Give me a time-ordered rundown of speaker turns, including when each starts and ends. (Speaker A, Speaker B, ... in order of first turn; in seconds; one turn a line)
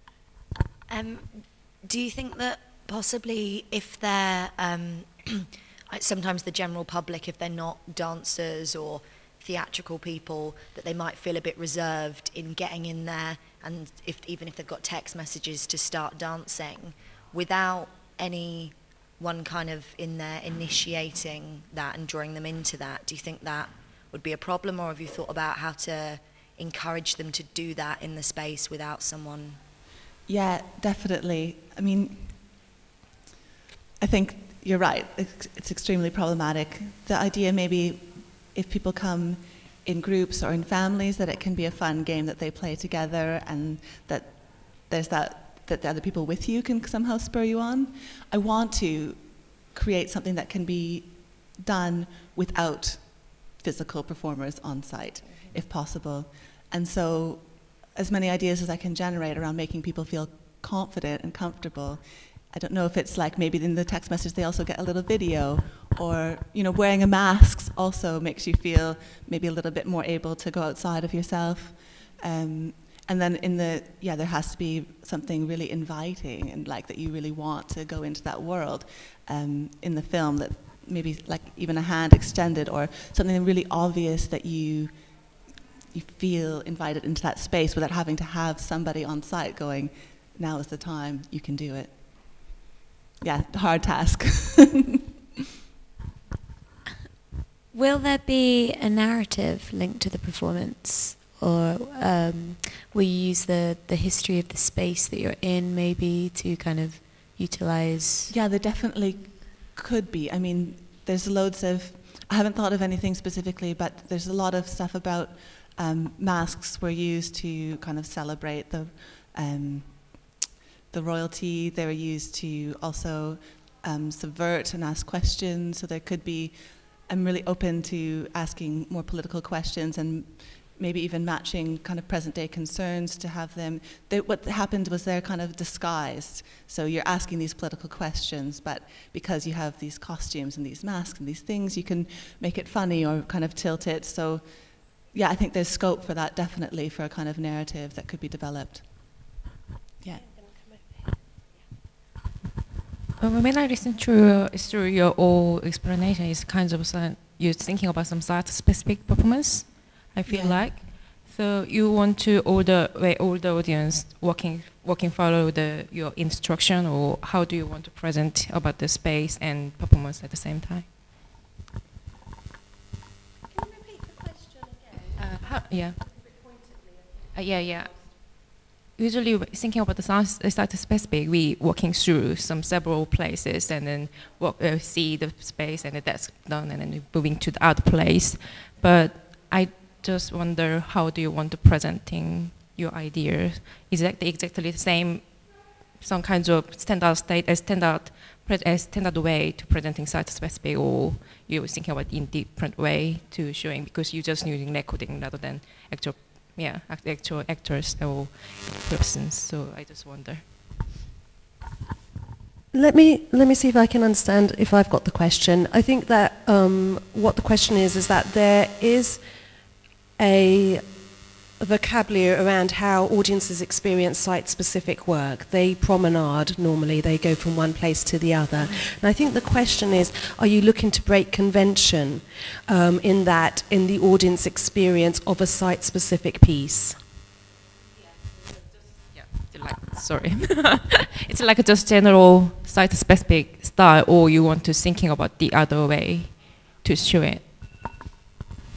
Speaker A: 0.9-29.6
Speaker B: 30.3-32.5
Speaker B: 34.0-92.5
Speaker B: 93.2-95.0
Speaker C: 97.7-108.3
Speaker B: 108.3-120.4
Speaker B: 120.9-149.4
Speaker D: 150.5-151.2
Speaker E: 153.2-170.9
Speaker B: 160.3-160.8
Speaker E: 175.2-176.2
Speaker E: 177.3-210.4
Speaker D: 212.7-237.0
Speaker E: 239.1-247.5